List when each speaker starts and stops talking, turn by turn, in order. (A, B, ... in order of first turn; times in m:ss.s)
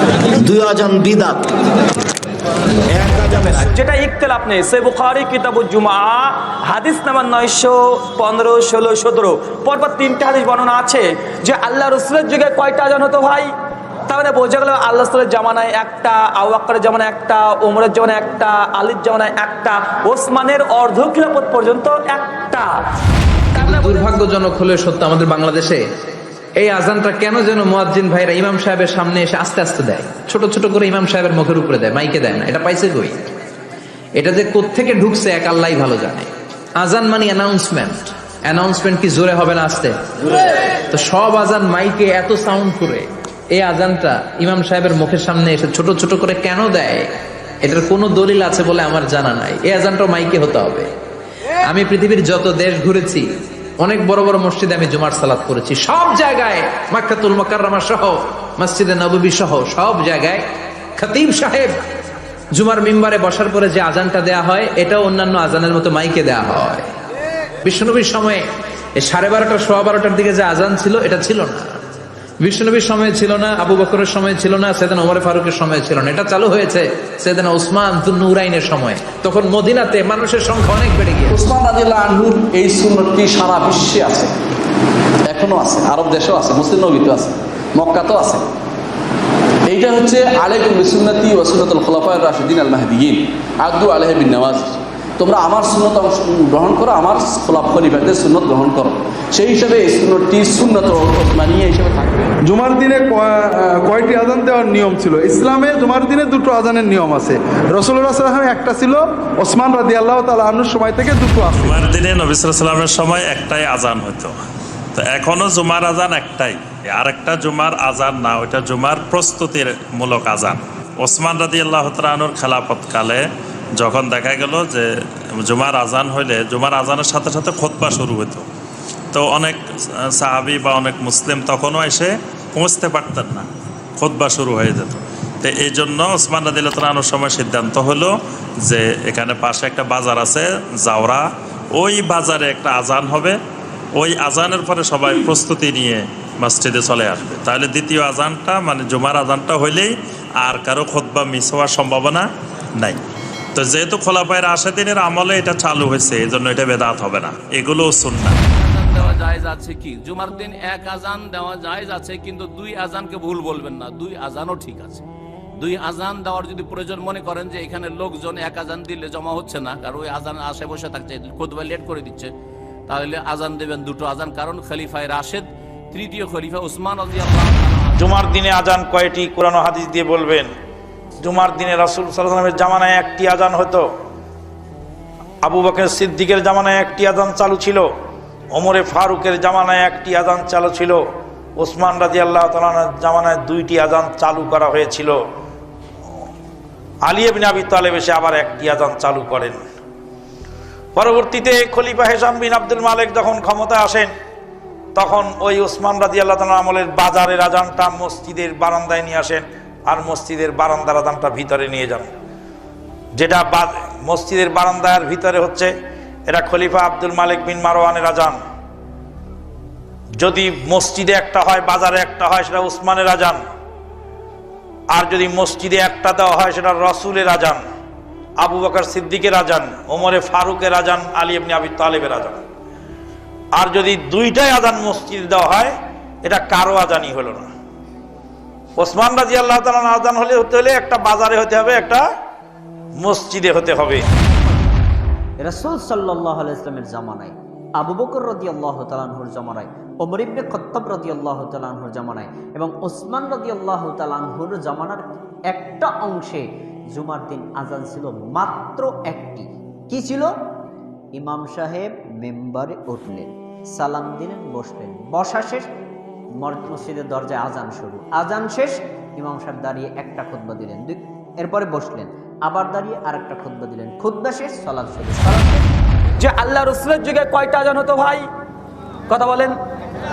0:00.3-0:01.5 A
0:02.9-0:03.7 A
0:03.8-0:13.5 B
0:14.1-0:22.8 B
0:23.6-0:25.8 C
0:23.6-0:24.0 B
0:26.6-0:33.2 C
0:34.2-0:40.4 C
0:40.9-0:47.1 C
0:47.6-0:50.9 C
0:51.7-0:53.3 C
0:53.8-1:00.4 C
1:01.0-1:01.8 C
1:02.5-1:06.8 C
1:07.6-1:08.4 C
1:09.0-1:11.8 C
1:12.4-1:21.5 C
1:21.3-1:24.3 D
1:25.3-1:28.4 D
1:29.7-1:42.3 D
1:42.4-1:51.8 E
1:51.5-1:54.3 F
1:55.0-2:03.2 F
2:03.8-2:04.8 F
2:05.4-2:08.4 F
2:09.1-2:09.6 F
2:10.2-2:13.5 F
2:14.0-2:18.1 F
2:18.6-2:21.2 F
2:21.8-2:23.4 F
2:24.0-2:32.3 F
2:33.6-2:38.4 F
2:38.5-2:45.0 G
2:45.6-2:52.3 G
2:52.9-2:58.2 G
2:58.0-3:00.5 H
3:01.2-3:03.9 H
3:05.4-3:07.9 H
3:08.5-3:11.0 H
3:11.6-3:15.2 H
3:17.0-3:19.6 H
3:21.0-3:24.1 H
3:25.0-3:32.1 H
3:33.2-3:35.7 H
3:36.3-3:38.4 H
3:40.2-3:43.4 H
3:44.9-3:47.6 H
3:48.4-3:52.4 H
3:53.6-3:55.7 H
3:56.2-3:57.5 H
3:58.8-4:02.0 H
4:03.0-4:04.0 H
4:05.4-4:20.3 I
4:21.2-4:25.7 I
4:26.4-4:35.6 I
4:36.2-4:38.3 B
4:39.1-4:39.6 B